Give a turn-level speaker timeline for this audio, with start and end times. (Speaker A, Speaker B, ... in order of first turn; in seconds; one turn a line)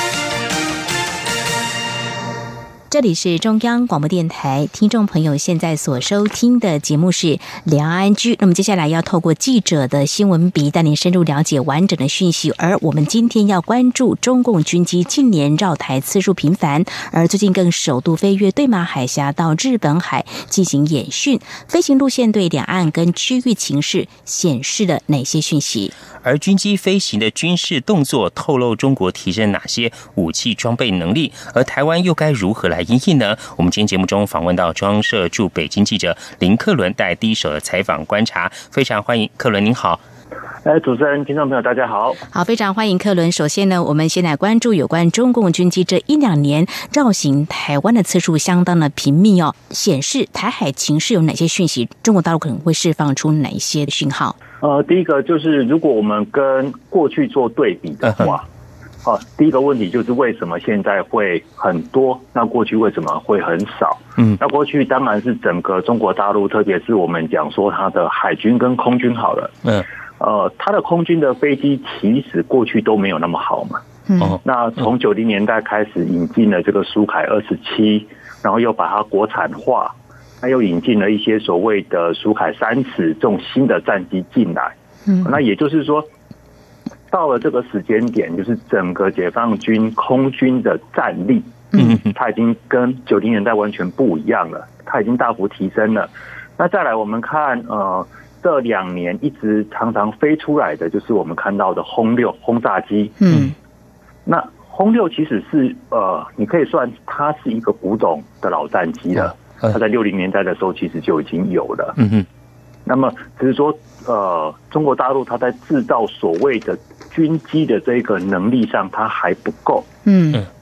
Speaker A: 2.9-25.9
Speaker B: 26.2-40.0
Speaker C: 40.6-42.2
Speaker A: 42.3-54.3
Speaker C: 54.6-58.5
Speaker B: 58.0-58.3
Speaker C: 59.0-73.8
Speaker A: 74.1-74.4
Speaker C: 74.4-86.1
Speaker C: 87.1-103.2
Speaker B: 91.8-92.1
Speaker A: 103.2-103.5
Speaker C: 104.2-112.0
Speaker B: 112.0-112.2
Speaker C: 112.9-119.9
Speaker A: 120.1-120.4